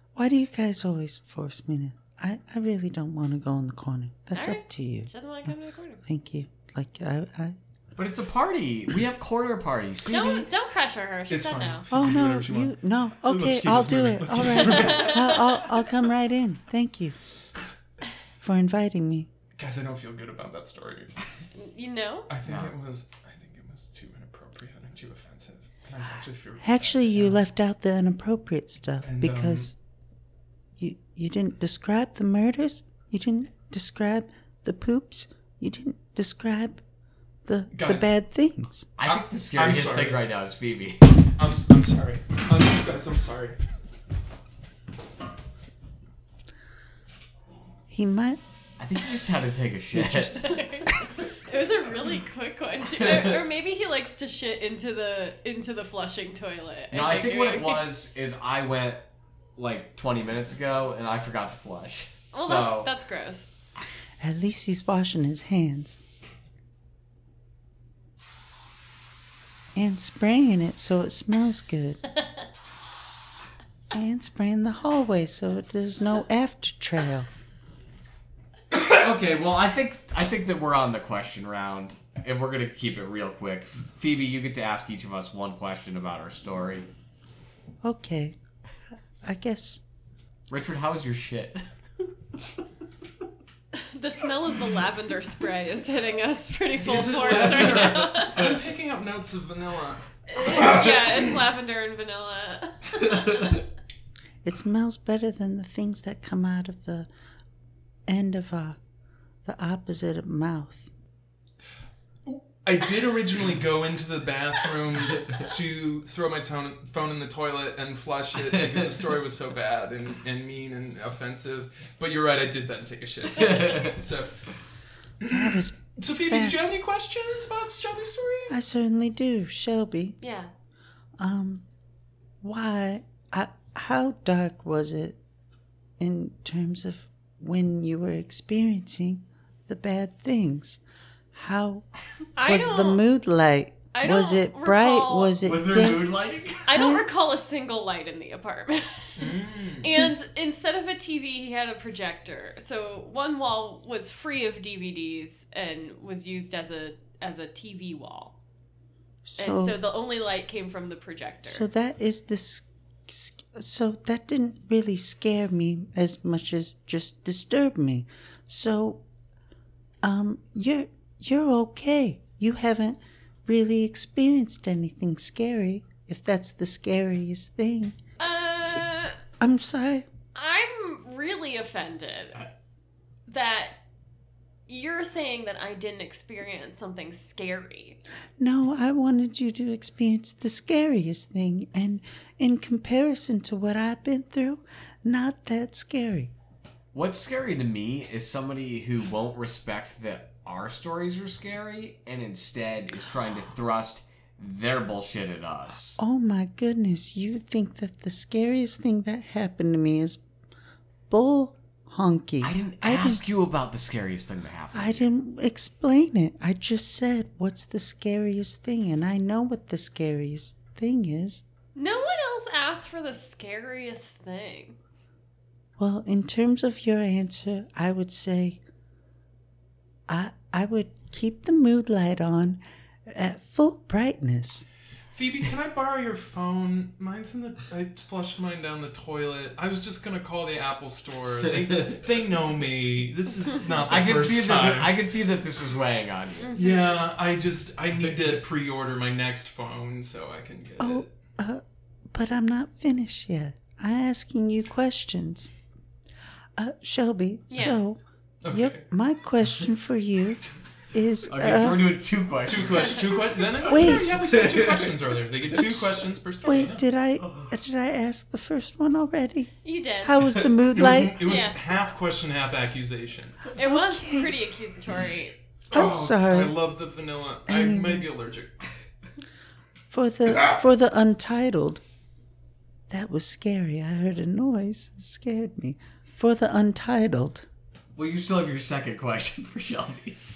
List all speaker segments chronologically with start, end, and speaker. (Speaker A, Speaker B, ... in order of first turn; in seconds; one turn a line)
Speaker A: 0.1-5.5
Speaker B: 4.3-6.0
Speaker A: 6.0-7.6
Speaker C: 8.0-10.5
Speaker B: 10.1-11.8
Speaker D: 11.3-15.6
Speaker A: 11.9-17.2
Speaker B: 14.6-15.4
Speaker A: 18.4-19.3
Speaker D: 19.6-21.2
Speaker B: 21.6-22.3
Speaker D: 22.3-27.4
Speaker C: 22.4-22.7
Speaker A: 26.6-29.7
Speaker D: 29.0-29.7
Speaker A: 30.8-36.8
Speaker A: 37.5-38.9
Speaker D: 37.7-38.1
Speaker C: 39.0-41.2
Speaker D: 39.0-40.2
Speaker D: 41.4-43.6
Speaker A: 47.9-48.4
Speaker C: 48.8-50.5
Speaker A: 49.9-50.4
Speaker B: 50.4-57.9
Speaker C: 53.0-53.4
Speaker C: 56.9-59.0
Speaker C: 59.6-62.9
Speaker B: 62.3-63.5
Speaker A: 64.2-66.0
Speaker A: 69.8-72.0
Speaker A: 73.9-77.3
Speaker C: 78.9-86.9
Speaker A: 87.8-88.4
Speaker A: 89.2-89.8
Speaker C: 90.5-91.7
Speaker B: 93.8-98.6
Speaker D: 96.8-101.2
Speaker B: 100.3-103.6
Speaker A: 104.4-107.1
Speaker A: 108.1-108.8
Speaker A: 109.5-110.9
Speaker D: 112.3-124.5
Speaker C: 118.6-118.9
Speaker C: 123.4-124.0
Speaker D: 125.2-128.6
Speaker A: 125.3-126.7
Speaker A: 128.5-130.2
Speaker B: 130.2-130.5
Speaker A: 131.2-131.7
Speaker A: 132.4-135.2
Speaker A: 136.0-140.8
Speaker A: 141.3-141.9
Speaker B: 142.4-143.0
Speaker A: 142.4-146.2
Speaker B: 143.9-145.3
Speaker C: 145.4-146.7
Speaker B: 146.7-158.3
Speaker A: 146.7-147.1
Speaker D: 149.2-149.9
Speaker A: 159.2-159.8
Speaker B: 159.4-161.7
Speaker A: 161.5-169.0
Speaker A: 170.0-178.0
Speaker B: 178.2-179.2
Speaker A: 179.4-180.1
Speaker B: 180.3-182.4
Speaker B: 183.3-183.8
Speaker B: 184.7-188.0
Speaker A: 188.4-196.3
Speaker C: 196.9-206.0
Speaker A: 206.0-210.2
Speaker A: 211.1-213.2
Speaker C: 212.4-215.1
Speaker A: 214.7-221.4
Speaker B: 221.8-224.8
Speaker A: 225.8-228.6
Speaker A: 230.1-234.7
Speaker D: 235.1-244.9
Speaker C: 243.9-246.6
Speaker B: 246.4-246.8
Speaker D: 246.6-251.1
Speaker A: 250.8-255.5
Speaker A: 256.6-262.0
Speaker B: 257.5-257.8
Speaker D: 258.4-258.8
Speaker C: 261.3-264.9
Speaker D: 262.4-266.8
Speaker A: 263.6-264.2
Speaker A: 266.4-271.4
Speaker B: 269.6-270.4
Speaker D: 270.7-273.5
Speaker B: 271.2-271.6
Speaker B: 273.6-275.4
Speaker A: 273.6-274.4
Speaker D: 275.7-278.6
Speaker A: 275.7-276.6
Speaker A: 277.5-278.1
Speaker A: 279.9-281.8
Speaker A: 282.9-287.5
Speaker C: 288.0-290.2